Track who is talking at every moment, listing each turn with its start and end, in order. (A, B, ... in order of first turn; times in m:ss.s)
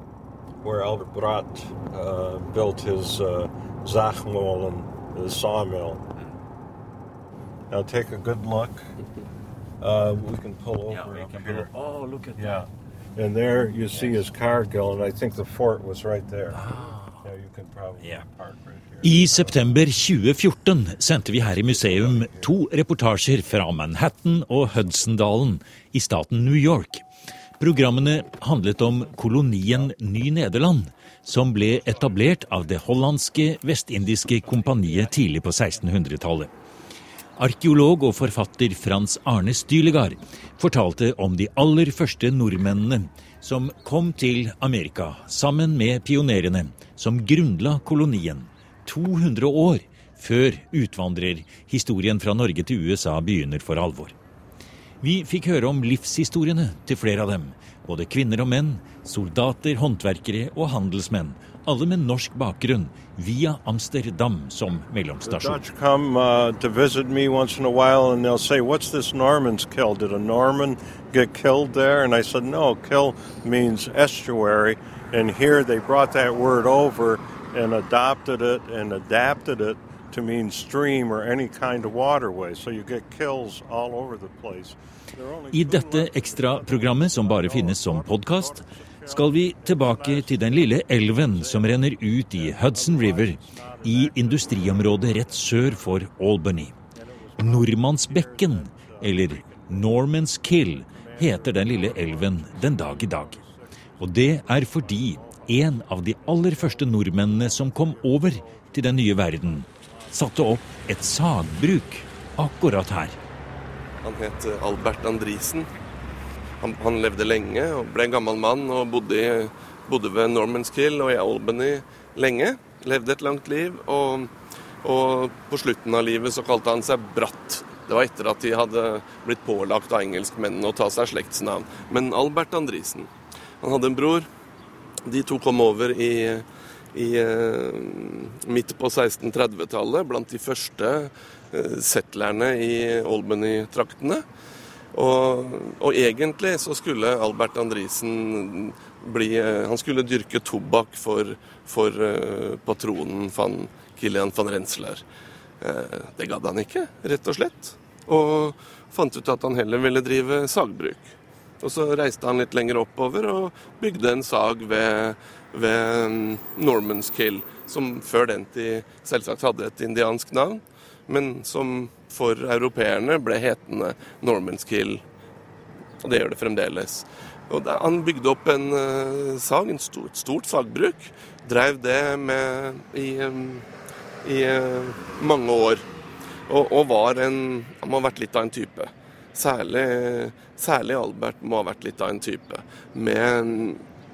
0:00.6-0:06.0 A
0:07.7-0:08.8 A
0:09.8-0:11.7 A
0:10.9-0:12.5 B
0:12.4-0:19.7 A
0:13.9-0:14.2 B
0:16.5-0:17.2 B
0:18.0-0:18.2 B
0:19.0-0:27.0 B
0:21.5-0:22.5 A
0:27.6-0:36.5 B
0:37.4-0:54.1 B
0:55.0-1:05.6 B
1:05.2-1:36.0 A
1:25.5-1:36.8 B
1:37.0-1:50.7 A
1:37.4-1:43.4 B
1:44.0-1:53.2 B
1:54.0-1:55.7 C
1:56.6-2:04.3 C
2:04.8-2:13.1 C
2:13.6-2:14.3 C
2:15.0-2:24.2 C
2:24.9-2:35.0 C
2:35.6-2:55.0 C
2:56.0-3:03.7 C
3:04.2-3:05.8 C
3:06.5-3:13.8 C